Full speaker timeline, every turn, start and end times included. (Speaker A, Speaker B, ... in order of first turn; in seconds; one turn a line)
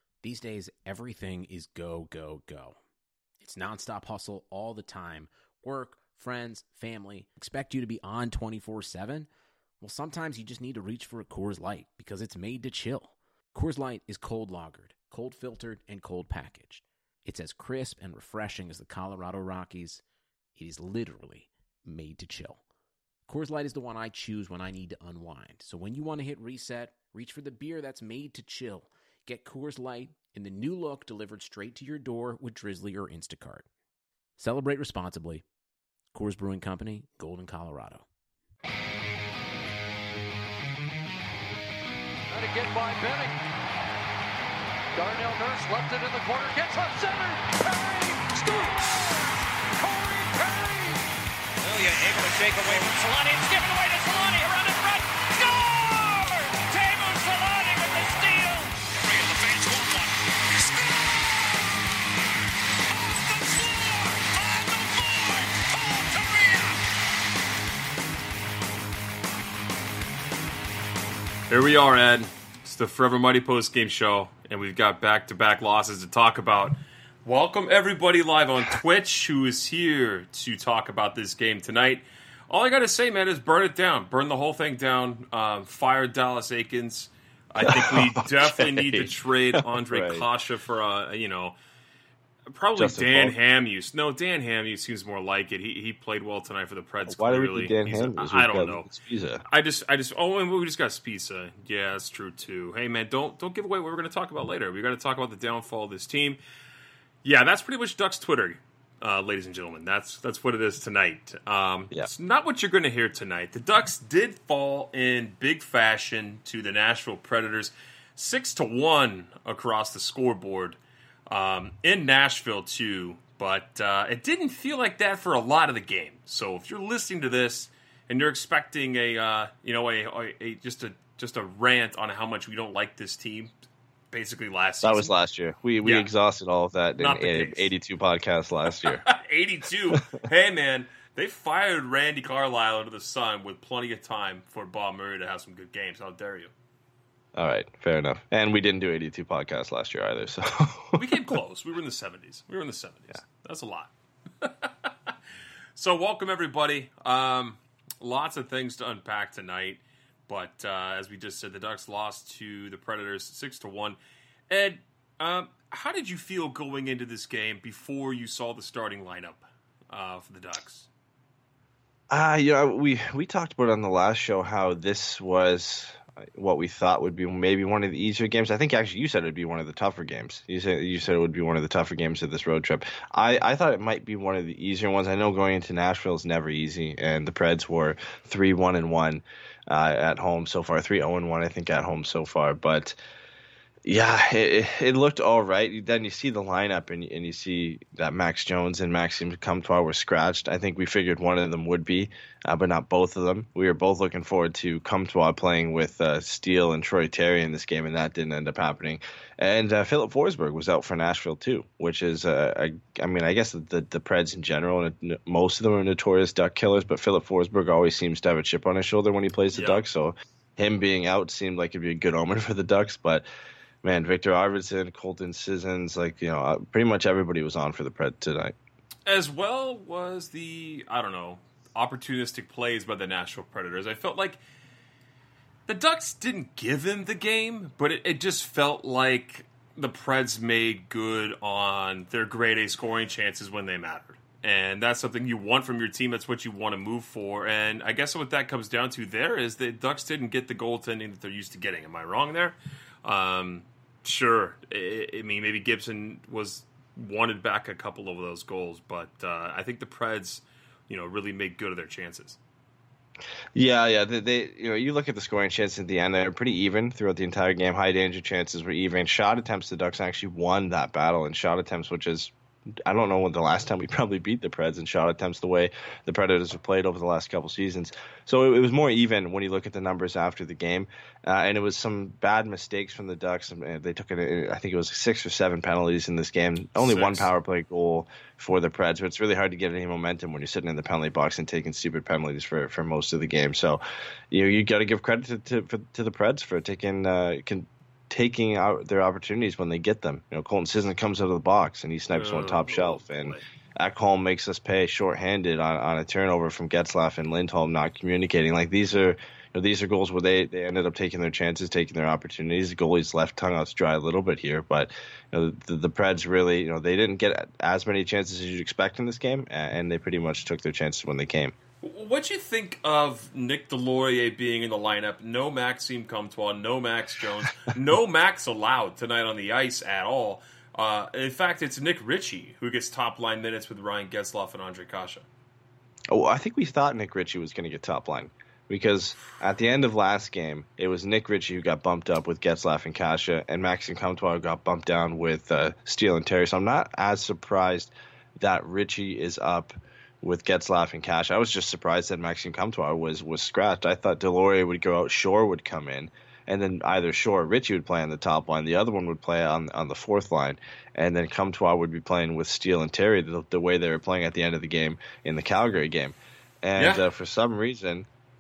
Speaker A: 0.2-2.8
Speaker A: 3.4-9.3
Speaker A: 9.8-20.0
Speaker A: 20.6-22.6
Speaker A: 23.3-33.7
Speaker A: 34.4-35.4
Speaker A: 36.1-38.0
Speaker B: 42.3-43.4
Speaker B: 45.0-51.0
Speaker C: 51.6-54.5
Speaker B: 52.8-58.7
Speaker C: 59.0-60.1
Speaker B: 63.0-66.8
Speaker D: 71.5-91.6
Speaker E: 87.6-90.3
Speaker D: 92.5-98.9
Speaker E: 92.8-93.4
Speaker E: 97.1-99.4
Speaker D: 99.5-106.4
Speaker D: 107.2-120.8
Speaker D: 121.3-133.5
Speaker D: 134.1-135.1
Speaker E: 134.8-139.0
Speaker D: 135.8-136.1
Speaker D: 137.0-137.7
Speaker D: 138.8-146.5
Speaker E: 139.9-140.2
Speaker E: 147.3-151.2
Speaker D: 151.0-155.1
Speaker D: 155.8-164.0
Speaker D: 164.5-170.9
Speaker E: 172.1-193.0
Speaker E: 193.8-223.3
Speaker D: 219.5-219.8
Speaker E: 223.8-228.6
Speaker D: 229.1-234.4
Speaker D: 235.7-262.4
Speaker E: 263.6-272.3
Speaker E: 272.9-293.8
Speaker D: 286.8-287.3
Speaker E: 294.3-321.6
Speaker D: 302.1-303.4
Speaker D: 321.8-335.3
Speaker E: 336.1-368.1
Speaker D: 366.8-367.1